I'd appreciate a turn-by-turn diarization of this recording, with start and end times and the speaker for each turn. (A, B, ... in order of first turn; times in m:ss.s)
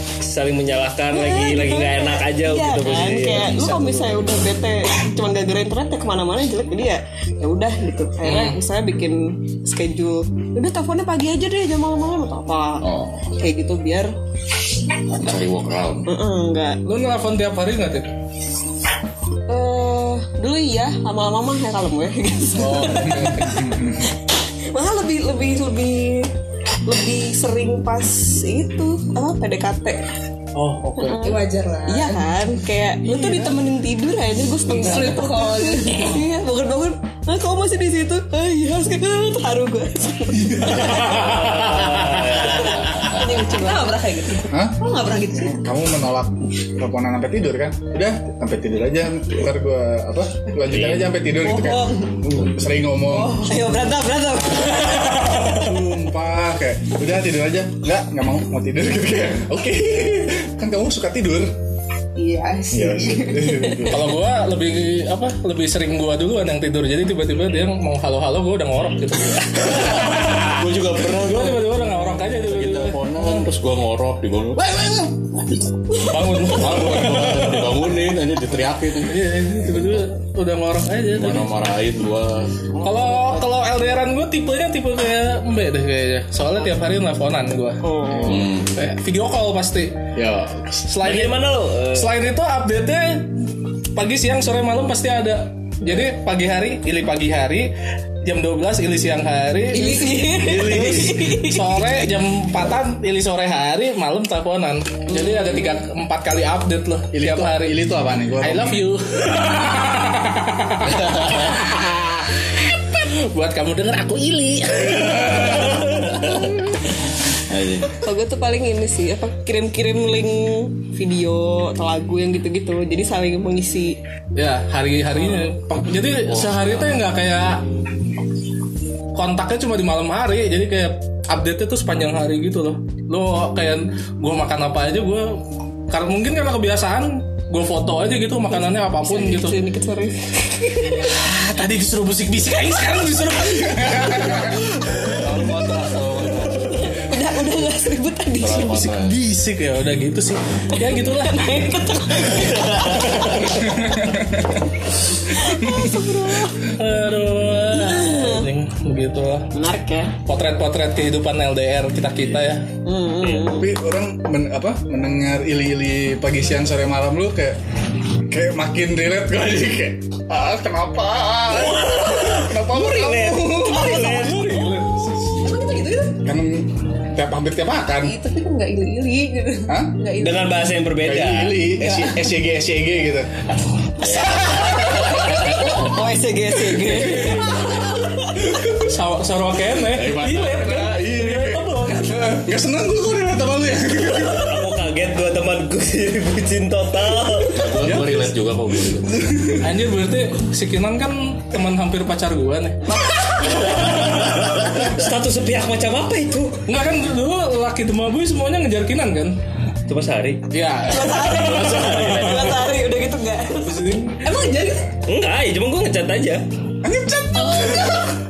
0:00.2-0:03.6 A
0:01.1-0:14.1 B
0:03.4-0:04.4 C
0:08.2-0:08.6 C
0:12.8-0:13.3 D
0:15.1-0:16.1 D
0:16.1-0:16.8 B
0:16.9-0:18.1 C
0:19.5-0:23.8 B
0:22.6-0:23.6 C
0:23.3-0:24.0 E
0:24.7-0:26.3 B
0:26.9-0:30.0 B
0:30.6-0:31.4 C
0:31.0-0:41.5 B
0:31.2-0:32.3 F
0:33.1-0:33.4 C
0:34.7-0:36.2 F
0:40.6-0:42.7 C
0:41.1-0:43.1 A
0:42.2-0:44.0 B
0:43.2-0:45.6 F
0:44.5-0:53.5 E
0:51.4-0:52.3 F
0:53.1-0:53.8 F
0:53.3-0:55.5 B
0:54.9-0:55.4 C
0:55.4-1:01.5 E
1:02.2-1:03.9 F
1:02.7-1:04.2 E
1:03.9-1:13.5 C
1:09.6-1:11.8 D
1:12.4-1:15.3 D
1:16.0-1:17.8 C
1:16.4-1:20.0 D
1:19.1-1:21.5 C
1:21.1-1:23.4 D
1:22.8-1:30.0 C
1:27.8-1:28.4 B
1:28.3-1:28.7 D
1:30.2-1:30.9 D
1:30.9-1:33.3 C
1:31.0-1:32.1 A
1:34.0-1:37.7 C
1:38.2-1:47.8 C
1:39.7-1:41.8 B
1:40.4-1:41.2 D
1:45.1-1:45.7 B
1:47.1-1:48.8 E
1:48.4-1:56.3 C
1:51.1-1:51.4 D
1:54.9-1:56.6 D
1:57.4-1:58.0 D
1:57.9-2:04.0 B
2:04.4-2:07.6 C
2:06.3-2:07.0 D
2:09.1-2:15.4 C
2:15.9-2:19.6 C
2:18.5-2:21.2 B
2:21.1-2:24.5 C
2:23.6-2:24.6 E
2:25.0-2:27.0 D
2:26.7-2:28.9 B
2:28.4-2:29.2 D
2:28.6-2:31.7 C
2:30.7-2:34.2 B
2:33.1-2:33.6 C
2:33.7-2:34.6 E
2:35.2-2:36.7 B
2:35.7-2:36.0 C
2:36.6-2:39.5 C
2:37.7-2:38.5 B
2:39.5-2:40.2 B
2:40.3-2:42.7 C
2:42.8-2:43.7 B
2:43.2-2:43.5 A
2:43.5-2:47.6 E
2:48.3-2:54.2 E
2:51.6-2:54.5 A
2:53.7-2:54.2 F
2:53.8-2:55.2 C
2:54.9-2:55.5 E
2:55.4-2:56.2 F
2:56.2-2:58.2 E
2:58.0-3:00.6 F
2:59.7-3:00.0 E
3:00.2-3:01.9 A
3:01.0-3:03.4 E
3:04.1-3:04.9 E
3:04.1-3:04.4 D
3:04.3-3:08.0 B
3:08.6-3:12.3 C
3:09.9-3:10.8 D
3:10.3-3:14.6 E
3:14.3-3:17.6 A
3:17.5-3:19.3 D
3:19.6-3:24.2 C
3:23.4-3:26.6 A
3:26.7-3:29.3 C
3:29.9-3:30.4 A
3:30.5-3:32.7 C
3:30.8-3:34.0 B
3:31.6-3:32.4 A
3:33.6-3:34.2 C
3:34.2-3:34.9 F
3:35.1-3:36.4 A
3:36.8-3:38.1 E